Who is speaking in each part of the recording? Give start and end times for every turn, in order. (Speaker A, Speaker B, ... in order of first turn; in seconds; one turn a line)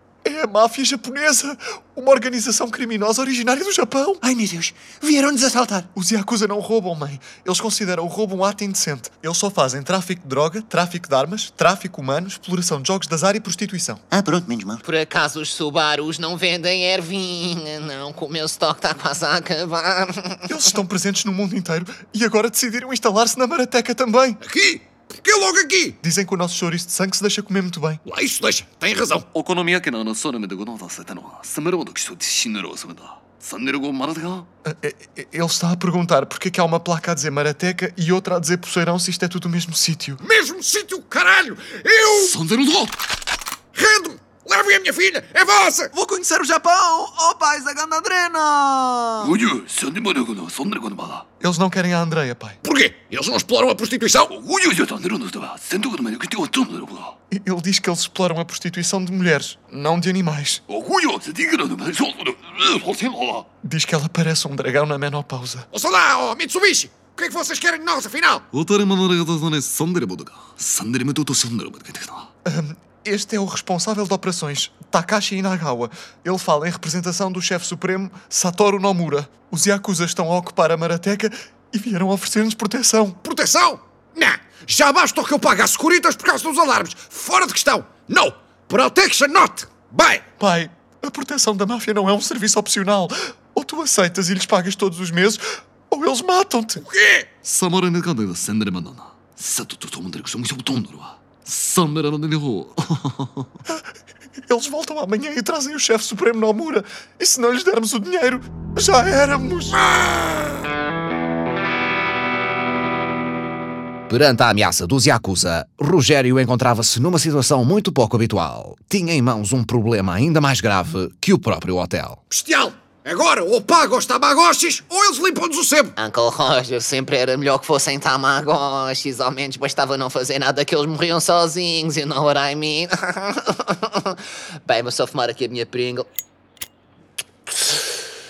Speaker A: 0.2-4.2
Speaker B: 4.2-5.9
Speaker A: 5.9-14.0
Speaker B: 14.1-14.8
Speaker C: 14.8-20.5
Speaker A: 20.5-24.4
Speaker D: 24.4-26.0
Speaker A: 26.0-28.0
Speaker D: 28.1-29.3
Speaker E: 29.3-34.5
Speaker A: 34.6-40.2
Speaker D: 40.2-42.4
Speaker E: 42.2-43.0
Speaker D: 43.7-45.9
Speaker F: 45.9-49.4
Speaker E: 49.2-51.2
Speaker A: 51.4-52.6
Speaker D: 52.6-54.3
Speaker E: 54.3-57.1
Speaker A: 57.3-60.6
Speaker E: 60.7-63.5
Speaker A: 63.6-65.7
Speaker D: 65.7-68.5
Speaker E: 68.5-72.3
Speaker A: 72.5-83.2
Speaker D: 83.2-90.2
Speaker A: 90.4-96.8
Speaker D: 96.8-97.3
Speaker E: 97.4-103.5
Speaker A: 104.5-109.8
Speaker G: 114.1-122.2
Speaker D: 122.3-126.0
Speaker C: 126.0-136.1